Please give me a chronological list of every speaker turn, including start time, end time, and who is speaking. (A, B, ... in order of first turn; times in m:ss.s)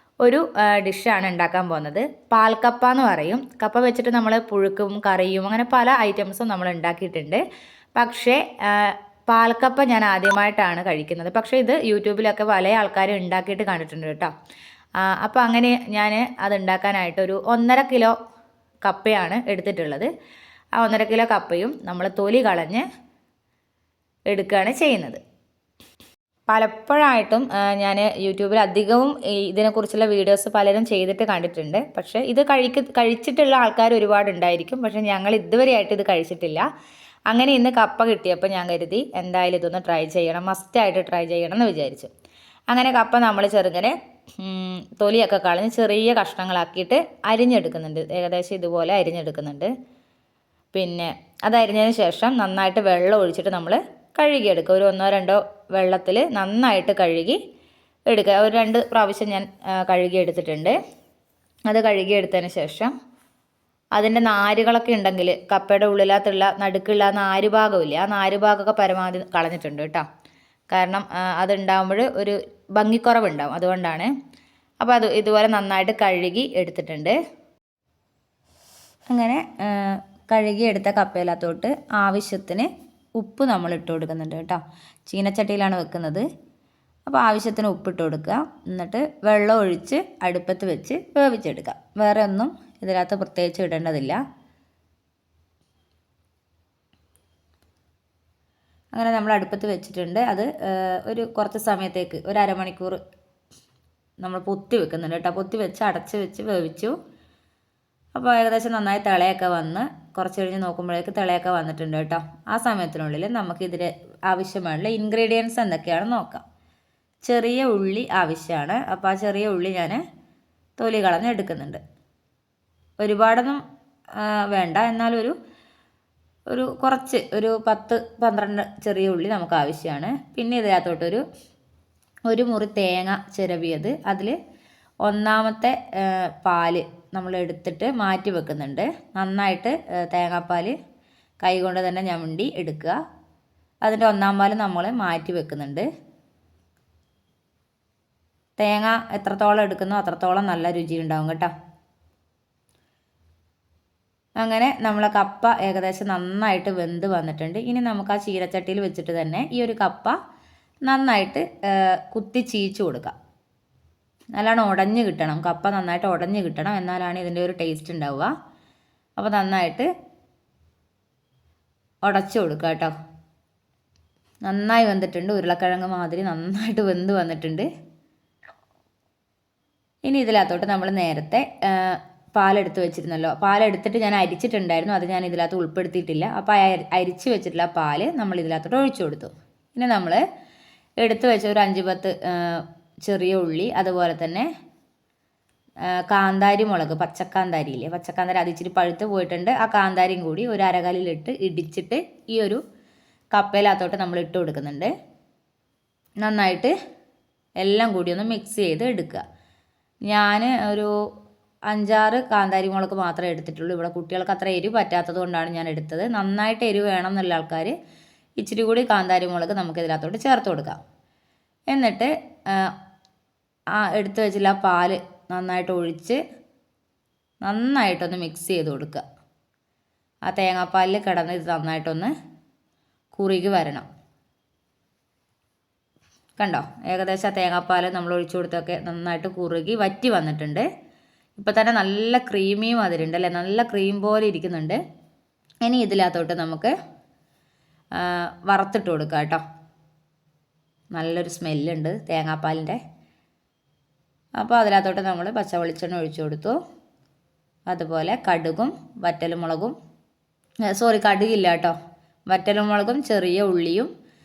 0:00.2-0:07.4 A
0:07.9-0:14.3 A
0:15.0-0:18.1 A
0:18.8-0:20.1 A
0:20.8-0:22.8 A
0:24.3-0:25.2 A
0:26.5-0:36.6 A
0:37.3-0:42.1 A
0:42.7-0:49.7 A
0:50.7-0:57.4 A
0:58.1-1:00.7 A
1:01.7-1:02.9 A
1:03.9-1:10.0 A
1:10.7-1:14.1 A
1:14.8-1:17.1 A
1:19.1-1:26.3 A
1:27.1-1:34.2 A
1:38.9-1:43.0 A
1:44.2-1:46.9 A
1:48.1-1:56.4 A
1:57.2-2:00.0 A
2:00.8-2:01.8 A
2:03.0-2:03.6 A
2:04.2-2:05.3 A
2:06.5-2:11.2 A
2:12.3-2:14.4 A
2:15.0-2:20.7 A
2:21.4-2:23.0 A
2:23.8-2:25.9 A
2:28.6-2:31.5 A
2:34.4-2:40.2 A
2:40.8-2:43.1 A
2:44.3-2:48.3 A
2:49.2-2:49.9 A
2:52.0-2:52.9 A
2:54.4-2:57.7 A
3:00.0-3:10.2 A
3:11.0-3:14.4 A
3:15.9-3:22.6 A
3:23.3-3:24.9 A
3:26.2-3:26.7 A
3:27.6-3:29.2 A
3:30.1-3:30.9 A
3:31.7-3:37.7 A
3:38.4-3:40.8 A
3:41.7-3:42.7 A
3:43.7-3:46.2 A
3:47.4-3:49.0 A
3:50.3-3:52.1 A
3:53.1-3:53.8 A
3:56.4-4:00.7 A
4:01.4-4:04.8 A
4:05.6-4:06.7 A
4:08.0-4:09.4 A
4:10.9-4:12.8 A
4:14.4-4:16.6 A
4:17.7-4:19.7 A
4:20.7-4:21.7 A
4:22.3-4:23.9 A